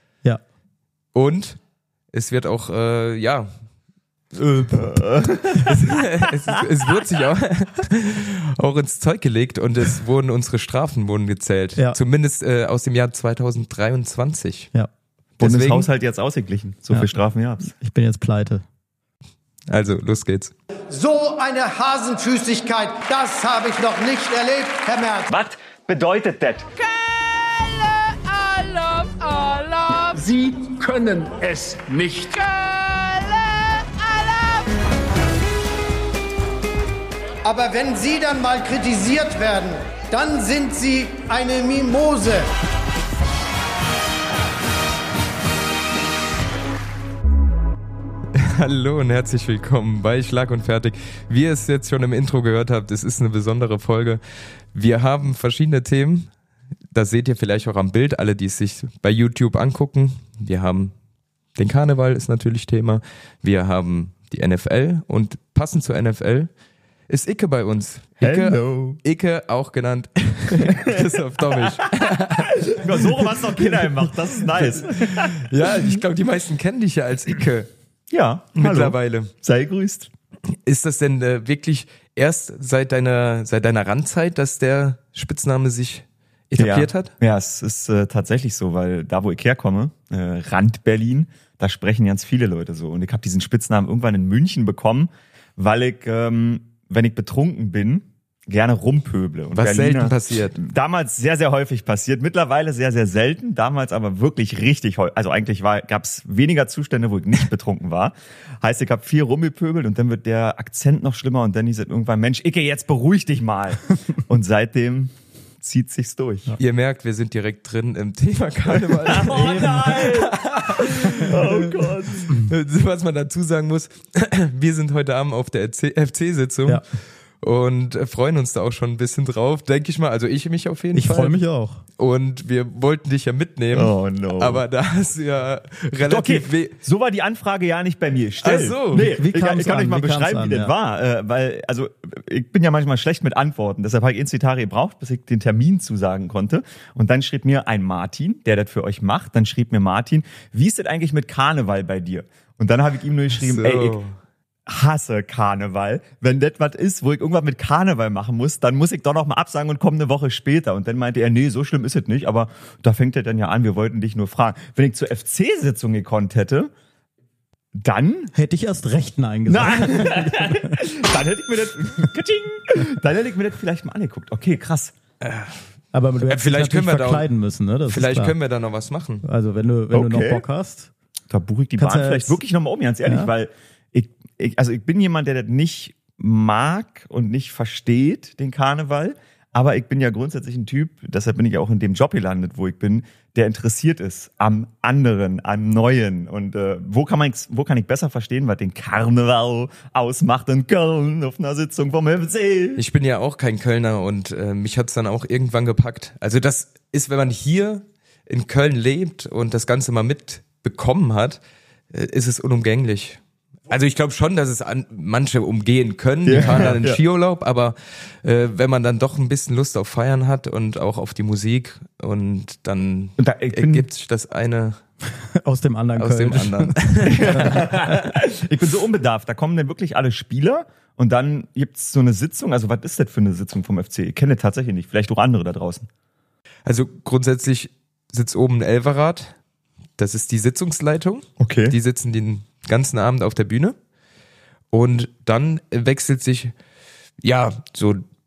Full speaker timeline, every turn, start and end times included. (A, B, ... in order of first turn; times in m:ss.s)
0:01.1-0:01.6 A
0:02.1-0:03.5 A
0:04.4-0:04.9 A
0:04.7-0:05.8 B
0:05.4-0:14.7 A
0:15.4-0:15.9 A
0:15.4-0:17.7 B
0:17.7-0:18.6 C
0:19.7-0:20.5 A
0:20.9-0:25.3 D
0:25.3-0:26.7 B
0:26.8-0:34.7 E
0:37.4-0:42.5 D
0:48.4-0:54.2 A
0:54.7-0:56.3 A
0:56.9-1:00.9 A
1:01.6-1:06.5 A
1:07.1-1:13.2 A
1:08.2-1:09.0 B
1:10.6-1:11.0 B
1:12.6-1:15.5 B
1:14.6-1:17.7 A
1:18.1-1:20.1 B
1:18.6-1:19.3 A
1:20.5-1:27.1 A
1:26.6-1:56.6 B
1:39.5-1:40.6 A
1:56.6-2:01.6 A
1:58.7-2:02.3 B
1:59.3-2:00.1 C
2:02.3-2:06.8 A
2:07.4-2:11.4 A
2:10.9-2:11.8 C
2:12.0-2:16.8 A
2:13.7-2:14.6 B
2:16.0-2:34.0 B
2:18.4-2:19.1 A
2:19.0-2:20.7 C
2:33.4-2:34.2 A
2:34.7-2:46.7 B
2:47.8-2:48.3 B
2:48.3-2:50.8 C
2:49.5-2:54.9 B
2:55.2-2:55.6 A
2:55.9-2:58.4 C
2:56.3-2:57.3 A
2:57.9-2:59.2 A
2:59.2-3:00.9 C
2:59.9-3:00.4 B
3:01.3-3:22.8 B
3:01.8-3:02.4 C
3:03.0-3:03.3 C
3:22.8-3:31.4 A
3:31.9-3:44.8 A
3:36.2-3:37.0 B
3:43.2-3:43.9 B
3:45.2-3:47.9 C
3:46.0-3:47.6 A
3:47.1-3:55.9 B
3:56.6-3:59.4 A
4:00.0-4:03.8 A
4:01.4-4:01.8 B
4:04.7-4:06.5 A
4:07.2-4:08.0 A